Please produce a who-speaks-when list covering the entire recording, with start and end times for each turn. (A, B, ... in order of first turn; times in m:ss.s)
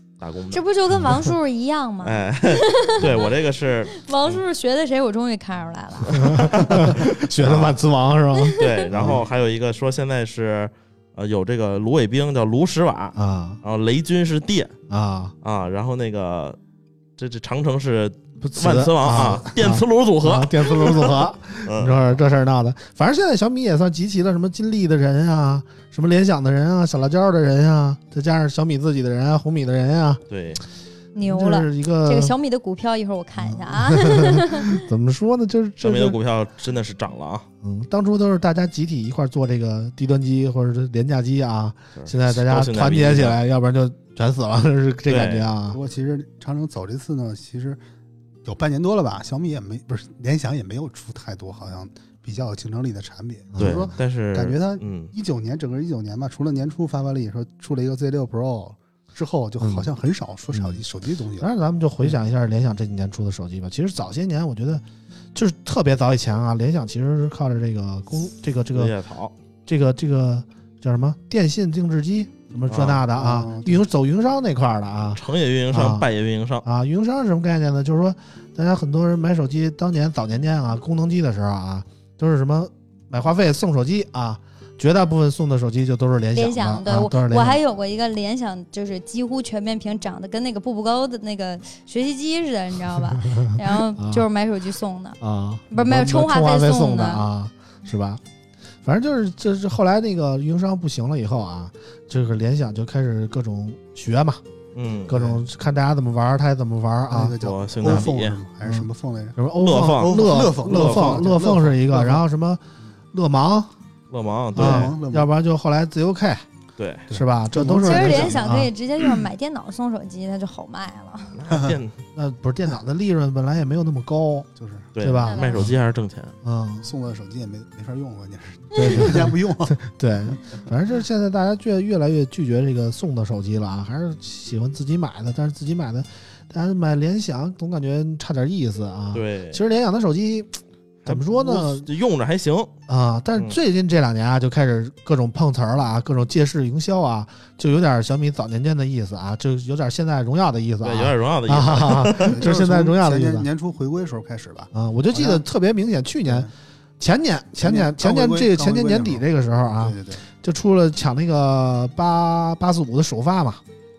0:00.2-0:00.6 A
0:00.5-0:03.3 B
0:02.0-0:04.4 A
0:03.9-0:06.4 B
0:06.1-0:07.8 A
0:06.1-0:09.2 C
0:08.6-0:14.7 A
0:09.0-0:09.2 D
0:13.2-0:13.6 C
0:14.9-0:15.3 C
0:15.4-0:16.6 A
0:17.2-0:22.0 A
0:18.4-0:30.2 C
0:30.3-0:30.6 A
0:31.2-0:34.8 B
0:31.2-0:32.4 C
0:33.4-0:36.2 C
0:35.8-0:37.5 A
0:37.6-0:45.8 C
0:42.0-0:43.4 A
0:45.1-0:45.5 A
0:45.7-0:47.8 D
0:48.4-1:01.5 D
0:53.5-0:53.9 C
0:53.6-0:55.1 A
0:59.6-0:59.9 C
1:00.5-1:00.8 C
1:01.4-1:08.9 C
1:08.7-1:09.3 A
1:09.7-1:16.1 C
1:12.7-1:13.0 A
1:13.1-1:13.8 D
1:15.1-1:16.6 A
1:16.6-1:27.6 C
1:26.4-1:35.2 B
1:34.0-1:34.2 C
1:35.2-1:38.2 C
1:35.7-1:37.2 B
1:38.8-1:44.4 C
1:44.8-1:45.3 A
1:45.1-1:48.1 C
1:45.1-1:45.4 D
1:47.1-1:49.4 D
1:47.4-1:48.4 A
1:48.6-1:53.7 C
1:49.6-1:51.3 A
1:50.0-1:52.2 D
1:54.1-1:54.9 A
1:54.6-1:55.3 D
1:54.6-1:56.4 C
1:56.8-1:57.1 A
1:57.1-1:58.5 D
1:57.1-1:58.7 C
1:57.8-2:01.4 B
2:01.3-2:02.0 A
2:02.2-2:05.8 C
2:04.6-2:04.9 D
2:05.0-2:06.3 A
2:05.3-2:05.7 B
2:06.4-2:06.9 C
2:06.8-2:09.8 D
2:08.8-2:21.9 C
2:08.8-2:09.0 B
2:19.1-2:19.6 A
2:21.0-2:22.7 A
2:22.9-2:33.5 C
2:30.8-2:32.4 A
2:32.2-2:35.4 D
2:34.7-2:43.6 C
2:36.3-2:36.5 D
2:37.6-2:40.2 D